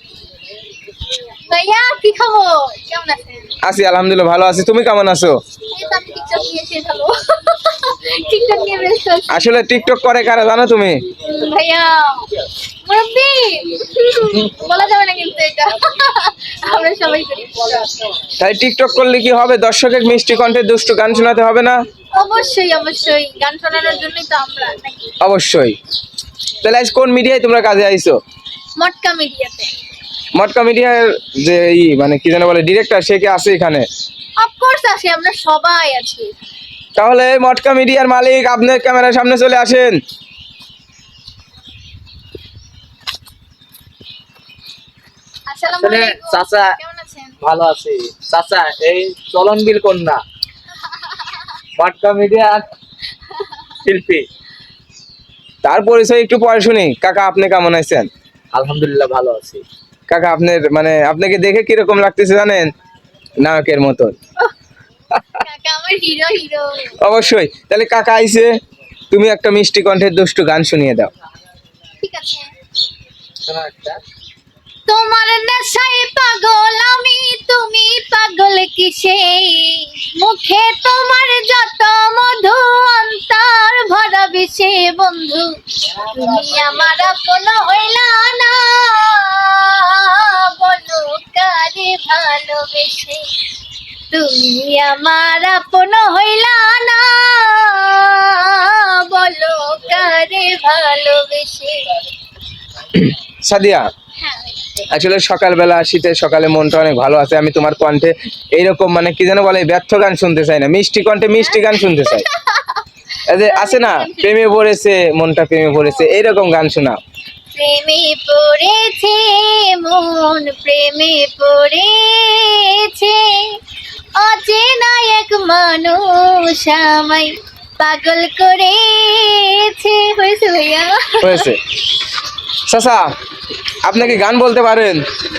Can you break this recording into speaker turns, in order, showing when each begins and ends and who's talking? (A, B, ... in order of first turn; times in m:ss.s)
0:01.5-0:03.5 A
0:03.6-0:05.4 B
0:05.7-0:09.4 A
0:09.3-0:11.0 B
0:11.2-0:12.3 A
0:12.8-0:17.9 A
0:18.4-0:21.8 B
0:22.1-0:25.1 A
0:25.2-0:25.8 B
0:26.6-0:28.2 B
0:28.8-0:29.7 A
0:30.4-0:33.8 B
0:34.4-0:36.5 A
0:37.0-0:40.0 B
0:45.5-0:47.4 A
0:45.7-0:46.8 C
0:47.4-0:50.2 C
0:51.8-0:52.7 C
0:53.8-0:54.3 C
0:55.6-0:58.1 B
0:58.5-0:59.6 C
1:00.1-1:02.7 B
1:03.4-1:04.2 B
1:05.3-1:07.0 A
1:07.0-1:08.5 B
1:09.1-1:11.1 B
1:12.0-1:12.5 A
1:13.4-1:14.0 C
1:14.9-1:33.2 A
1:34.1-1:41.9 A
1:42.9-1:43.9 B
1:44.2-1:44.6 A
1:44.9-1:52.2 B
1:51.4-1:52.8 A
1:53.3-1:57.0 B
1:53.4-1:54.3 A
1:57.5-2:03.6 A
2:04.2-2:11.5 A
2:11.2-2:11.6 B
2:12.7-2:13.0 B
2:13.8-2:15.0 B